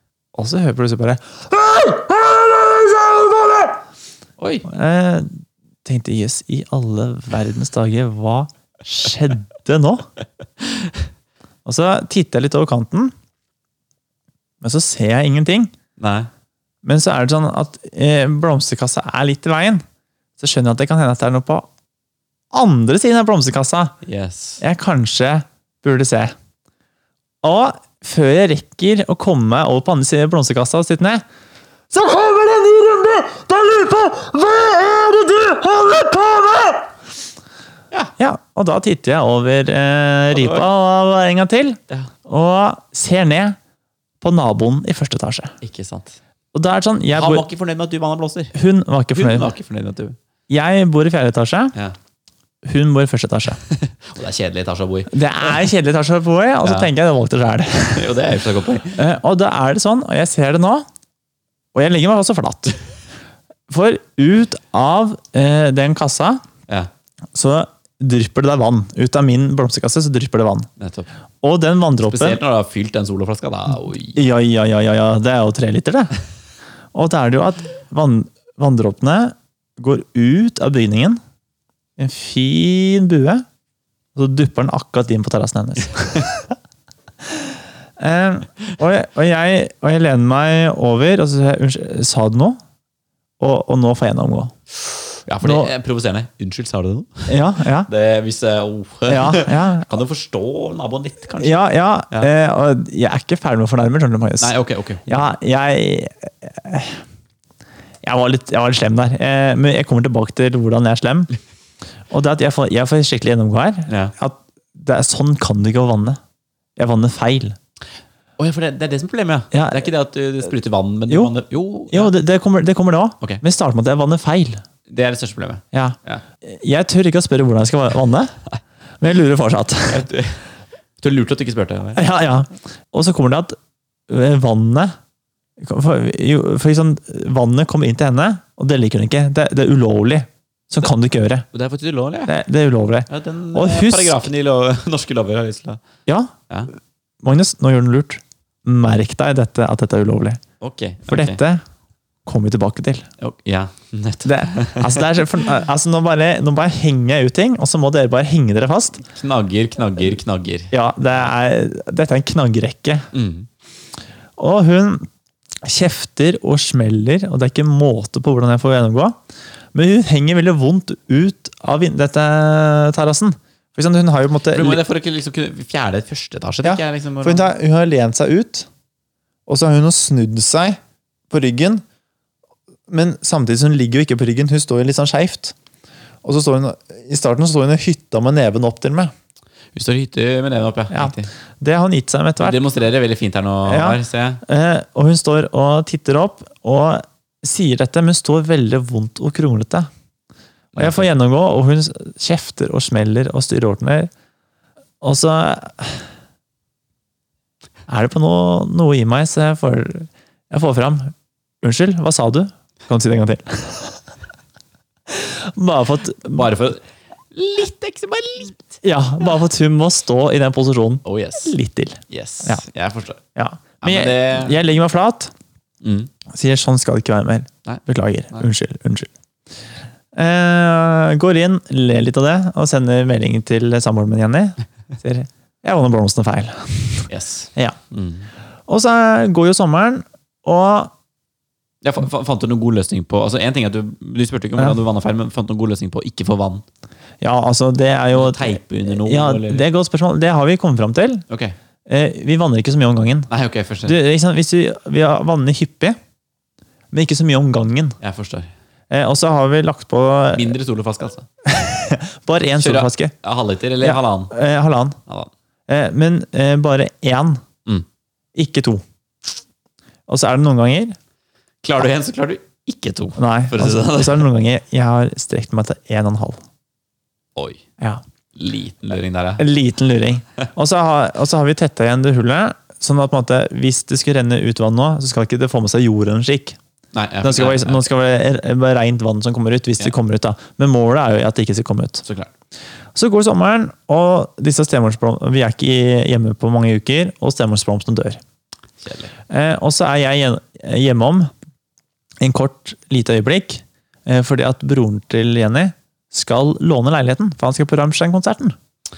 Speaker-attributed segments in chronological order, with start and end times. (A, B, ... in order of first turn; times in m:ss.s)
0:00.3-0:03.8 A
0:04.4-0:04.7 B
0:04.7-0:05.3 A
0:05.8-0:10.0 A
0:11.6-0:13.1 A
0:14.6-0:15.7 A
0:16.0-0:16.3 B
0:16.8-0:19.8 A
0:20.4-0:21.7 A
0:22.5-0:24.0 A
0:24.0-0:24.6 B
0:24.6-0:26.3 A
0:27.4-0:31.2 A
0:31.9-0:36.9 A
0:38.2-0:43.6 A
0:40.3-0:40.7 B
0:44.2-0:45.5 A
0:45.6-0:46.2 B
0:46.5-0:47.5 A
0:47.1-0:48.6 B
0:48.6-0:49.5 A
0:49.1-0:50.2 B
0:50.5-0:51.8 A
0:52.6-0:53.6 A
0:53.7-0:55.7 B
0:55.1-0:58.1 A
0:56.6-0:56.9 B
0:58.0-0:59.0 B
0:59.0-1:00.8 A
1:01.7-1:02.8 A
1:03.7-1:06.4 A
1:07.3-1:10.7 A
1:10.8-1:11.1 B
1:11.4-1:12.4 A
1:12.0-1:14.2 B
1:14.2-1:16.2 A
1:17.0-1:21.2 A
1:22.0-1:23.4 A
1:24.2-1:26.5 A
1:28.0-1:32.6 A
1:33.4-1:34.5 A
1:34.9-1:37.3 B
1:35.4-1:35.7 A
1:37.3-1:37.9 A
1:37.8-1:42.3 B
1:39.1-1:39.9 A
1:41.4-1:44.5 A
1:44.4-1:45.3 B
1:45.1-1:47.0 A
1:48.0-1:51.3 A
1:52.1-1:56.2 A
1:53.9-1:54.1 B
1:56.8-1:57.6 A
1:58.4-2:02.1 B
1:59.5-1:59.9 A
2:01.1-2:01.3 A
2:01.9-2:04.6 A
2:04.9-2:06.2 B
2:05.7-2:08.3 A
2:09.0-2:10.0 A
2:09.9-2:10.4 B
2:11.0-2:12.2 B
2:12.0-2:13.6 A
2:14.1-2:14.9 A
2:15.6-2:21.5 A
2:21.5-2:22.3 B
2:22.3-2:24.3 A
2:23.1-2:25.8 B
2:26.1-2:26.3 A
2:27.2-2:30.4 A
2:30.6-2:31.4 B
2:31.1-2:31.6 A
2:32.3-2:33.1 A
2:33.2-2:35.2 B
2:34.2-2:39.0 A
2:39.0-2:41.3 B
2:40.7-2:43.1 A
2:43.1-2:43.5 B
2:44.4-2:45.1 A
2:45.6-2:49.2 A
2:49.7-2:54.8 A
2:54.5-2:57.5 B
2:56.6-2:58.7 A
2:59.5-3:00.8 A
3:01.3-3:01.8 A
3:02.9-3:05.5 A
3:06.2-3:09.1 A
3:09.8-3:11.3 B
3:10.9-3:12.6 A
3:12.4-3:14.4 B
3:13.7-3:19.9 A
3:20.8-3:21.1 B
3:20.8-3:24.1 A
3:25.0-3:26.1 A
3:27.9-3:34.0 A
3:35.1-3:36.5 A
3:36.3-3:36.8 B
3:37.3-3:38.8 B
3:38.8-3:42.6 A
3:41.0-3:41.5 B
3:42.1-3:43.2 B
3:43.4-3:45.3 A
3:43.8-3:44.6 B
3:45.8-3:46.1 B
3:46.3-3:49.1 A
3:50.2-3:57.8 A
3:57.1-3:58.3 B
3:58.7-4:00.9 A
4:01.8-4:06.6 B
4:07.2-4:11.2 A
4:08.1-4:09.7 B
4:11.3-4:11.6 B
4:11.9-4:13.3 A
4:13.3-4:14.0 B
4:13.8-4:16.0 A
4:16.9-4:18.0 A
4:18.0-4:18.5 B
4:18.9-4:20.6 A
4:20.3-4:21.3 B
4:21.5-4:23.2 A
4:22.6-4:24.3 B
4:23.8-4:25.0 A
4:25.7-4:27.4 A
4:28.4-4:28.8 A
4:30.1-4:31.0 A
4:31.6-4:34.3 B
4:33.2-4:36.4 A
4:37.4-4:37.6 B
4:38.4-4:39.4 B
4:39.4-4:46.6 A
4:46.9-4:47.8 B
4:47.2-4:52.1 A
4:52.0-4:52.3 B
4:53.0-4:58.2 A
4:58.8-4:59.1 B
4:59.3-5:01.3 A
5:02.2-5:08.6 A